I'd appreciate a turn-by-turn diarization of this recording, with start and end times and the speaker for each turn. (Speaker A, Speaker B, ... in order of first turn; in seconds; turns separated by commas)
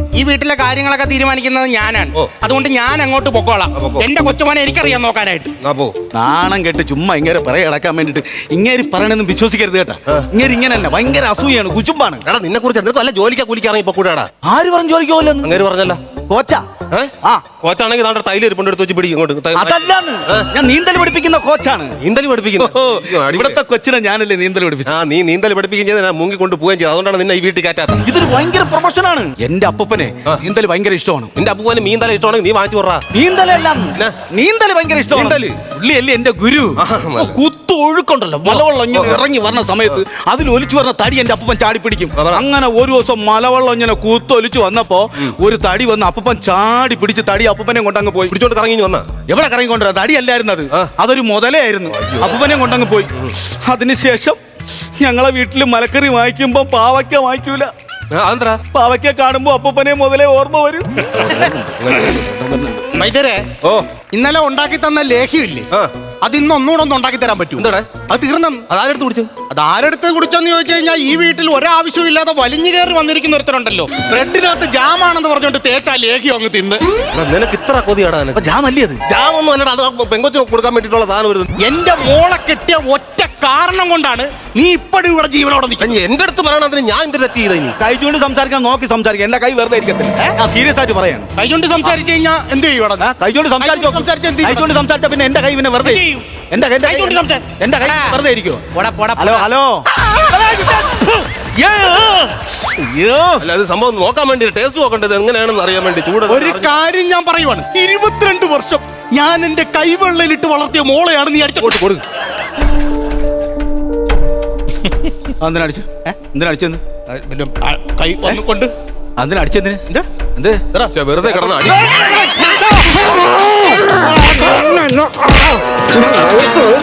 Speaker A: 0.1-5.5, Speaker B: 3.8-4.1, Speaker B: 5.6-5.9, Speaker C: 6.1-12.2, Speaker B: 12.2-14.3, Speaker C: 14.4-15.6, Speaker B: 15.4-16.0, Speaker C: 16.3-16.7, Speaker B: 16.9-20.5, Speaker C: 19.6-22.0, Speaker B: 22.0-23.6, Speaker C: 22.6-24.9, Speaker B: 24.9-28.1, Speaker C: 28.1-31.3, Speaker B: 31.4-33.0, Speaker C: 33.1-48.4, Speaker B: 34.0-34.2, Speaker B: 35.1-35.6, Speaker B: 36.8-37.4, Speaker B: 38.5-39.2, Speaker B: 42.2-42.5, Speaker B: 48.3-49.1, Speaker C: 49.3-53.1, Speaker B: 51.9-52.4, Speaker C: 53.6-54.4, Speaker C: 55.0-57.7, Speaker B: 58.1-58.6, Speaker C: 58.7-62.9, Speaker B: 61.1-62.3, Speaker A: 62.9-63.5, Speaker B: 63.6-63.9, Speaker A: 64.1-65.7, Speaker A: 66.2-68.6, Speaker B: 67.6-67.9, Speaker B: 68.7-69.3, Speaker A: 69.5-76.8, Speaker B: 77.1-78.5, Speaker C: 78.3-79.0, Speaker B: 79.1-81.5, Speaker A: 81.6-86.0, Speaker B: 85.8-87.8, Speaker C: 87.8-91.3, Speaker A: 91.4-93.1, Speaker C: 93.0-98.6, Speaker A: 93.6-94.7, Speaker A: 95.8-96.3, Speaker A: 96.8-98.2, Speaker A: 98.7-99.5, Speaker C: 99.2-103.5, Speaker B: 103.4-106.7, Speaker A: 106.3-112.0, Speaker B: 111.7-112.0, Speaker C: 115.4-116.8, Speaker A: 117.1-118.7, Speaker C: 119.2-120.6, Speaker B: 120.9-122.1, Speaker C: 121.3-122.3, Speaker A: 122.0-122.7